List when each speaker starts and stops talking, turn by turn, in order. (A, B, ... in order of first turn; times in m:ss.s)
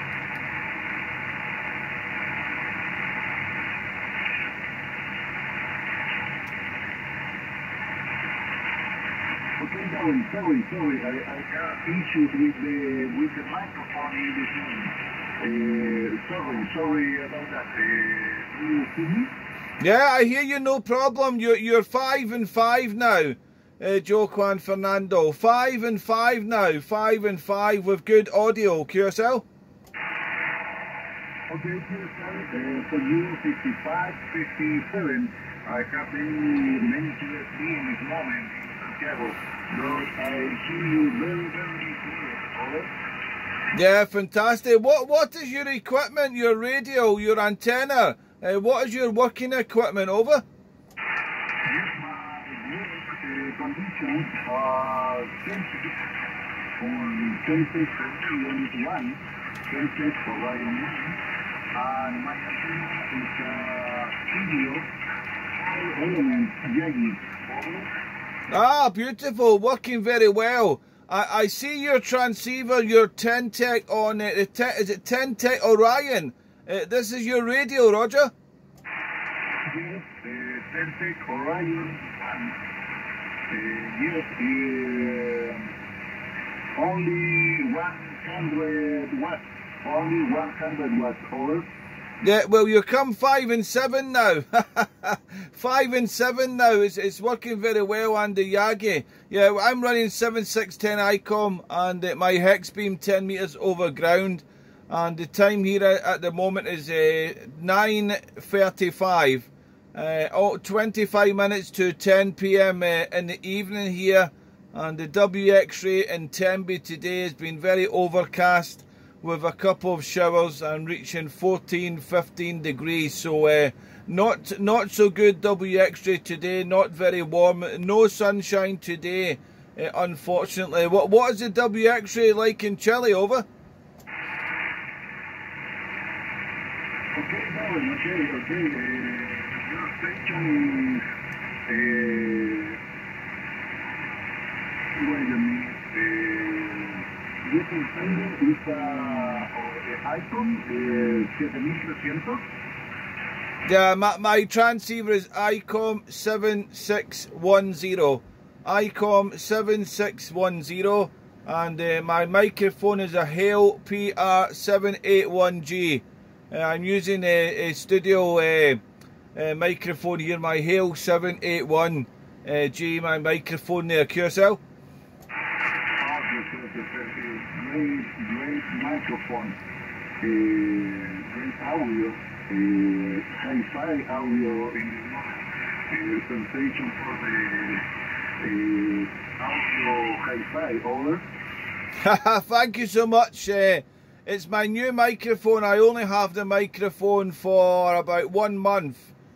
0:09.6-0:19.3 A
0:19.8-0:29.4 B
0:31.5-0:42.9 A
0:43.7-0:50.4 B
0:51.6-0:56.0 A
0:56.8-1:01.2 A
1:01.7-1:04.9 A
1:05.5-1:07.9 A
1:08.5-1:18.3 B
1:19.7-1:22.6 A
1:23.5-1:25.7 A
1:26.8-1:31.7 A
1:32.2-2:13.4 B
2:17.1-2:21.0 A
2:21.7-2:22.8 A
2:24.9-2:32.4 A
2:33.6-2:48.8 B
2:49.3-2:54.6 B
2:56.0-2:59.6 A
3:00.2-3:07.8 A
3:08.4-3:11.2 A
3:12.0-3:19.1 B